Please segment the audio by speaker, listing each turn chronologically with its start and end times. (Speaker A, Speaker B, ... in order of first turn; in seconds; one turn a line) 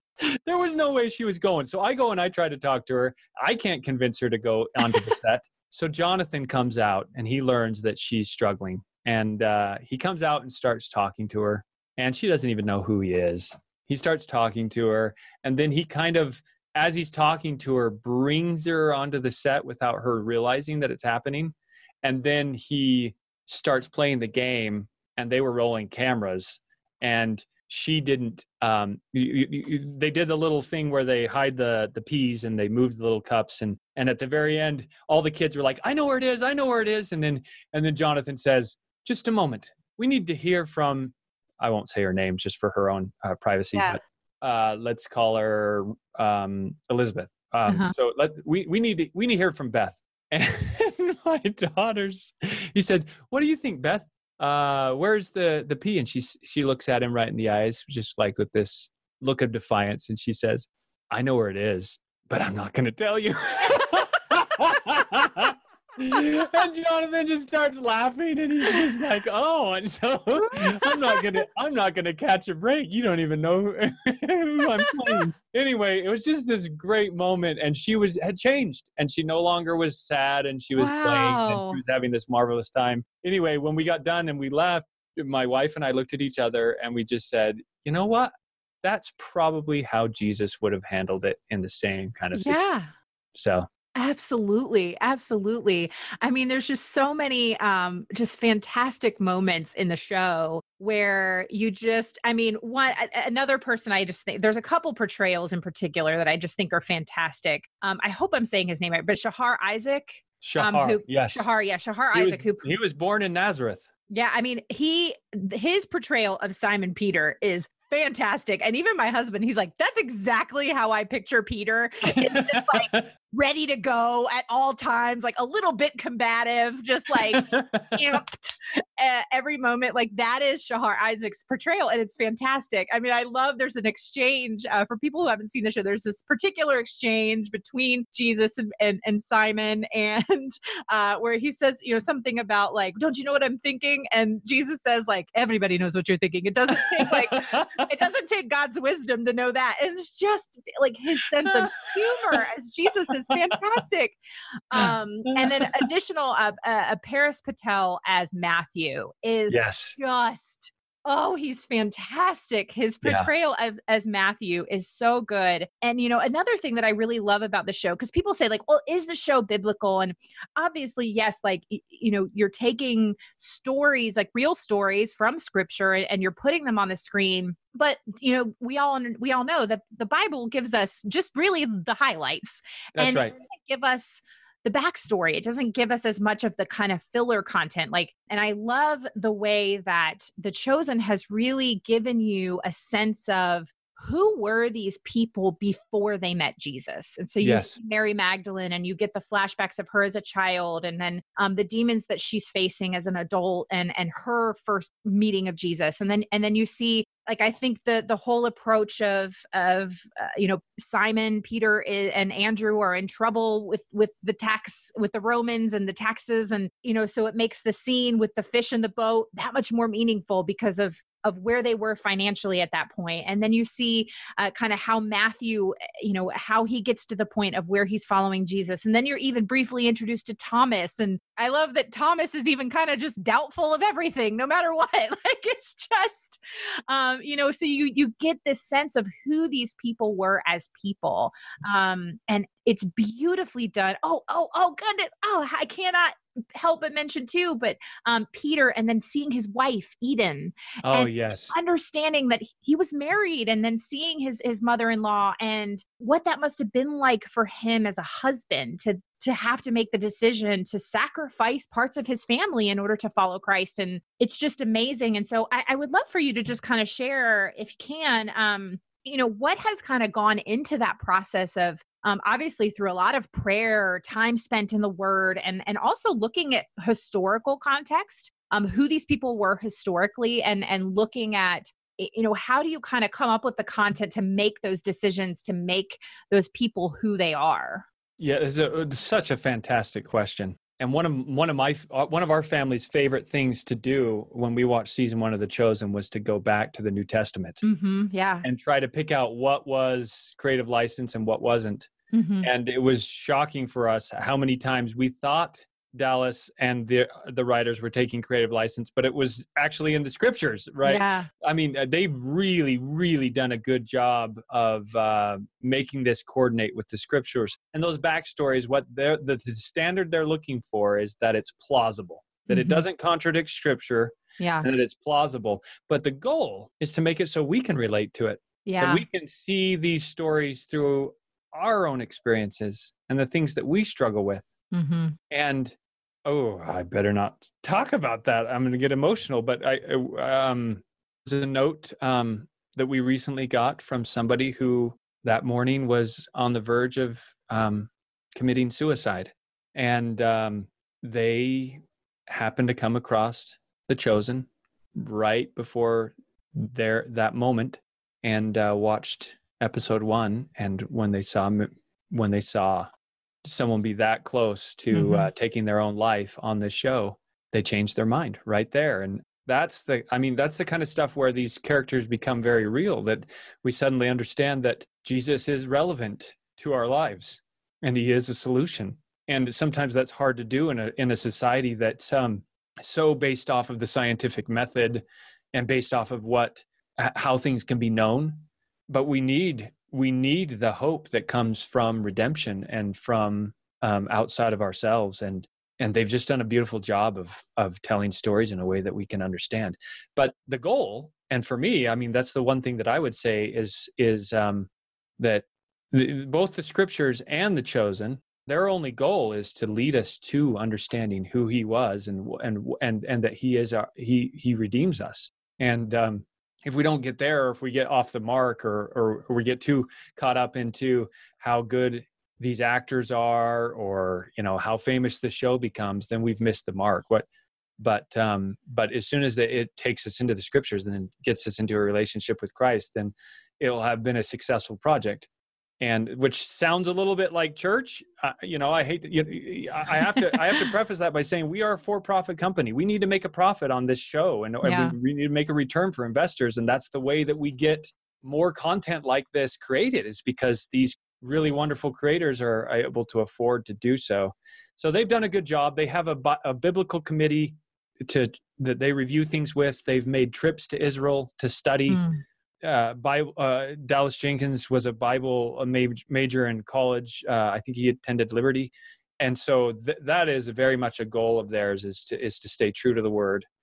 Speaker A: 0.3-88.3
Speaker B: 47.7-47.9
Speaker B: 70.5-71.2
Speaker B: 80.8-81.8
Speaker A: 88.8-92.6
Speaker B: 92.3-92.9
Speaker A: 93.3-93.7
Speaker B: 94.0-112.7
Speaker A: 110.4-111.5
Speaker A: 112.1-113.9
Speaker B: 114.1-154.2
Speaker A: 122.1-123.0
Speaker A: 127.2-128.2
Speaker A: 147.0-147.9
Speaker A: 151.4-151.8
Speaker B: 154.7-287.9
Speaker A: 154.8-155.6
Speaker A: 159.5-159.9
Speaker A: 182.9-183.3
Speaker A: 197.4-197.8
Speaker A: 250.8-251.5
Speaker A: 288.2-297.6
Speaker B: 297.6-298.5
Speaker A: 298.4-301.9
Speaker B: 302.1-302.5
Speaker A: 302.4-334.5
Speaker B: 310.9-311.3
Speaker B: 322.5-322.8
Speaker B: 324.4-324.7
Speaker B: 328.7-329.1
Speaker B: 334.7-335.2
Speaker A: 335.3-362.9
Speaker A: 363.4-427.3
Speaker B: 364.9-365.3
Speaker A: 427.8-435.3
Speaker A: 435.8-462.0
Speaker B: 440.1-440.6
Speaker B: 444.6-445.0
Speaker B: 461.9-462.2
Speaker A: 462.6-473.5